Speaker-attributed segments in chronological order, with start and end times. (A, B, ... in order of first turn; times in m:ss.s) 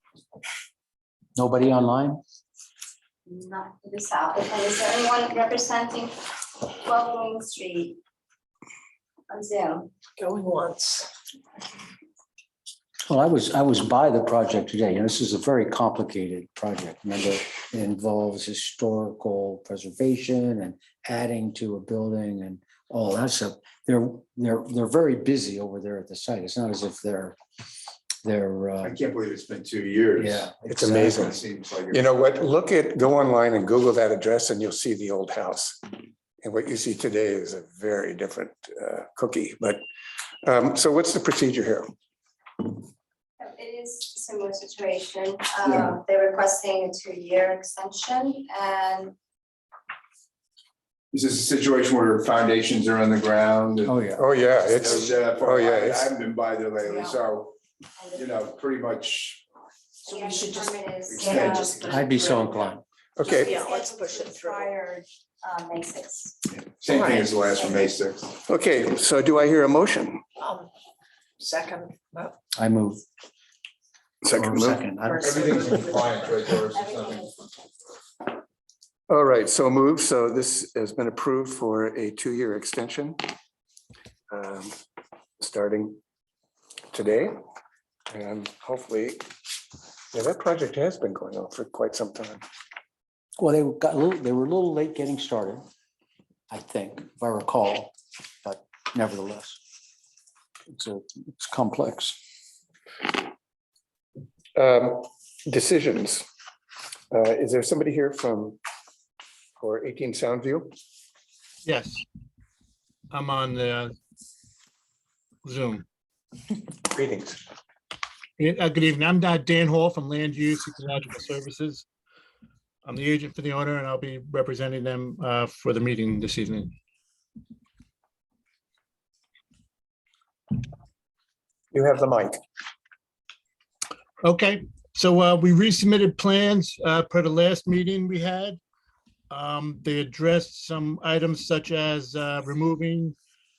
0:01.4-0:02.2 A
0:03.2-0:08.0 B
0:09.3-0:09.9 B
0:10.2-0:11.1 C
0:13.1-0:27.4 A
0:28.2-0:29.0 A
0:28.8-0:32.0 D
0:30.2-0:31.4 A
0:30.7-0:31.4 E
0:31.9-0:35.8 E
0:36.4-0:39.8 E
0:40.4-0:41.9 E
0:43.4-0:49.1 B
0:45.6-0:45.9 D
0:51.1-0:54.0 D
0:53.8-0:54.3 A
0:54.2-0:56.1 E
0:54.7-0:57.5 D
0:56.8-0:57.2 C
0:58.0-0:58.4 B
0:58.1-0:59.4 D
1:00.0-1:04.8 C
1:00.0-1:01.8 B
1:01.0-1:02.0 D
1:01.8-1:02.8 A
1:03.2-1:03.6 E
1:03.2-1:07.9 B
1:06.5-1:08.3 D
1:06.9-1:07.4 C
1:08.4-1:10.2 E
1:10.4-1:10.7 C
1:11.4-1:12.4 C
1:12.5-1:13.0 A
1:14.2-1:14.9 E
1:14.3-1:16.0 A
1:14.9-1:16.4 C
1:15.2-1:17.3 D
1:16.7-1:17.4 B
1:19.1-1:23.2 E
1:24.3-1:24.7 E
1:25.4-1:26.0 E
1:26.9-1:27.3 E
1:28.1-1:29.2 E
1:30.1-1:32.4 E
1:33.4-1:35.6 A
1:36.5-1:39.6 A
1:40.7-1:42.2 A
1:44.6-1:46.3 E
1:47.1-1:48.6 E
1:49.6-1:50.8 E
1:51.6-1:52.0 F
1:53.1-1:53.9 F
1:55.4-1:55.8 F
1:56.8-1:57.4 E
1:58.4-2:01.8 F
2:02.8-2:06.7 F
2:11.7-2:12.4 E
2:14.2-2:18.6 F
2:19.3-2:23.2 F